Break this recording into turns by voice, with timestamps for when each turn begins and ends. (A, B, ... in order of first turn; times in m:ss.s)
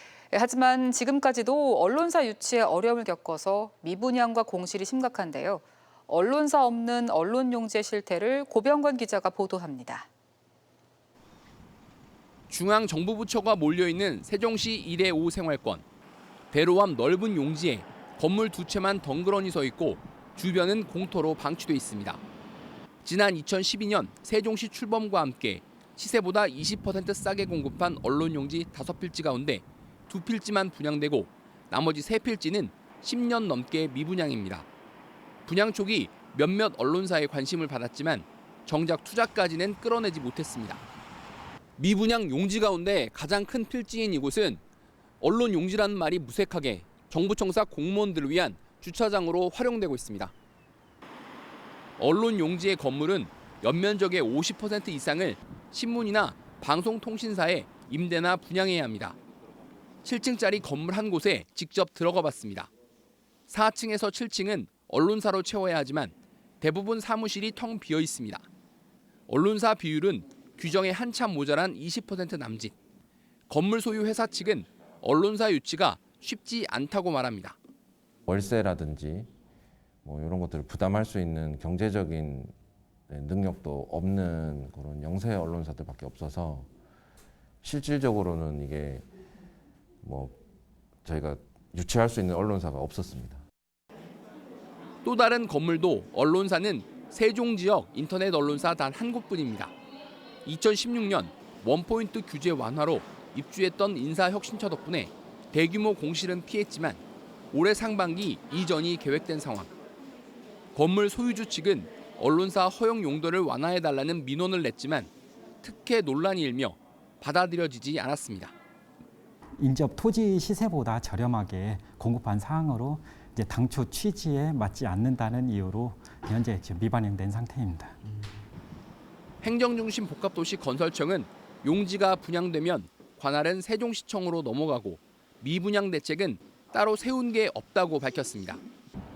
0:00.3-0:10.1 A
0:12.5-0:15.8 B
0:16.5-0:22.2 B
0:23.0-0:34.7 B
0:35.5-0:40.8 B
0:41.8-0:44.6 B
0:45.2-0:50.3 B
0:52.0-0:59.2 B
1:00.0-1:02.7 B
1:03.5-1:08.5 B
1:09.3-1:12.8 B
1:13.5-1:17.6 B
1:18.3-1:19.3 C
1:20.0-1:22.5 C
1:23.1-1:26.7 C
1:27.6-1:29.1 C
1:30.0-1:30.4 C
1:31.0-1:33.4 C
1:35.0-1:39.7 B
1:40.4-1:49.7 B
1:50.7-1:55.1 B
1:55.6-1:58.5 B
1:59.6-2:08.0 D
2:09.4-2:18.6 B